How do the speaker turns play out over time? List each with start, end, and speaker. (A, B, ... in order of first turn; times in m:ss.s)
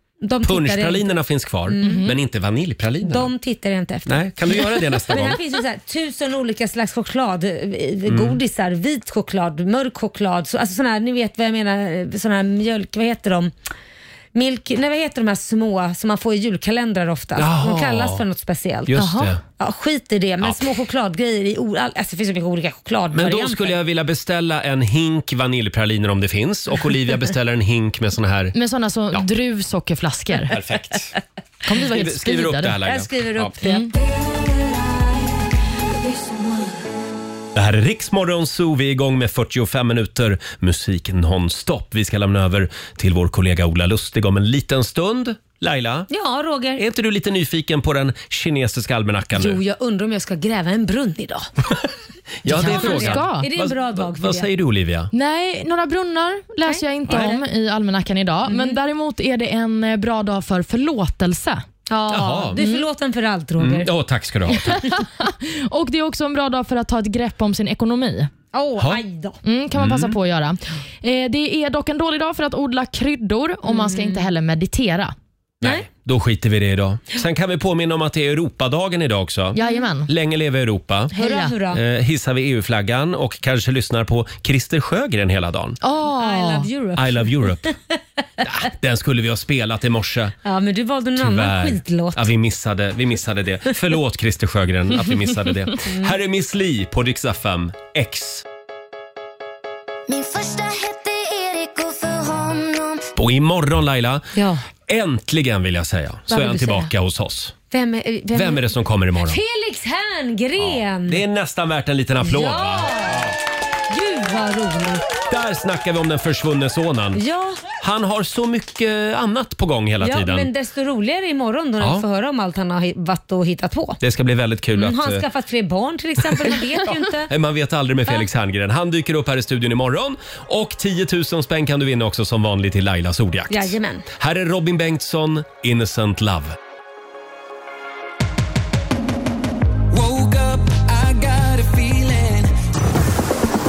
0:00.2-0:01.1 A
0:00.4-0:03.3 B
0:01.7-0:02.1 A
0:01.8-0:02.1 C
0:03.0-0:13.5 A
0:04.1-0:05.4 B
0:08.0-0:08.4 B
0:14.3-0:23.8 A
0:17.4-0:18.2 B
0:18.9-0:19.4 B
0:23.1-0:28.5 B
0:28.5-0:30.5 C
0:30.5-0:31.2 B
0:31.6-0:32.8 C
0:31.9-0:33.6 B
0:32.8-0:33.9 A
0:33.9-0:36.8 D
0:37.5-0:46.1 B
0:46.1-0:46.8 A
0:46.8-0:49.6 B
0:49.3-0:51.5 A
0:52.4-0:55.1 B
0:52.4-0:54.5 A
0:52.5-0:53.5 C
0:55.1-1:01.6 C
0:56.7-0:57.3 A
0:58.5-0:58.7 A
1:01.9-1:03.9 A
1:02.1-1:02.6 B
1:02.6-1:02.8 C
1:03.6-1:04.8 B
1:04.6-1:08.3 C
1:08.5-1:09.4 A
1:09.4-1:15.1 C
1:09.8-1:10.1 B
1:13.7-1:14.2 A
1:15.6-1:19.6 B
1:19.5-1:20.1 C
1:19.6-1:19.9 A
1:20.1-1:21.1 B
1:21.1-1:21.8 A
1:21.2-1:21.5 C
1:21.7-1:25.8 B
1:25.8-1:26.7 C
1:26.1-1:28.4 A
1:27.0-1:27.7 B
1:28.4-1:30.3 B
1:30.4-1:32.3 A
1:31.2-1:38.4 B
1:40.1-1:43.1 D
1:43.2-1:44.2 B
1:44.4-1:44.6 A
1:44.9-1:47.5 B
1:46.3-1:46.9 A
1:47.7-1:48.7 A
1:48.3-1:49.4 B
1:49.2-1:51.2 A
1:50.6-1:53.3 B
1:52.2-1:53.3 A
1:53.9-1:55.1 A
1:55.3-1:57.2 B
1:57.1-1:57.6 A
1:57.8-2:00.5 B
2:00.0-2:04.0 A
2:04.0-2:05.2 B
2:04.8-2:07.3 A
2:06.4-2:16.5 B
2:13.5-2:14.0 A
2:19.9-2:22.4 E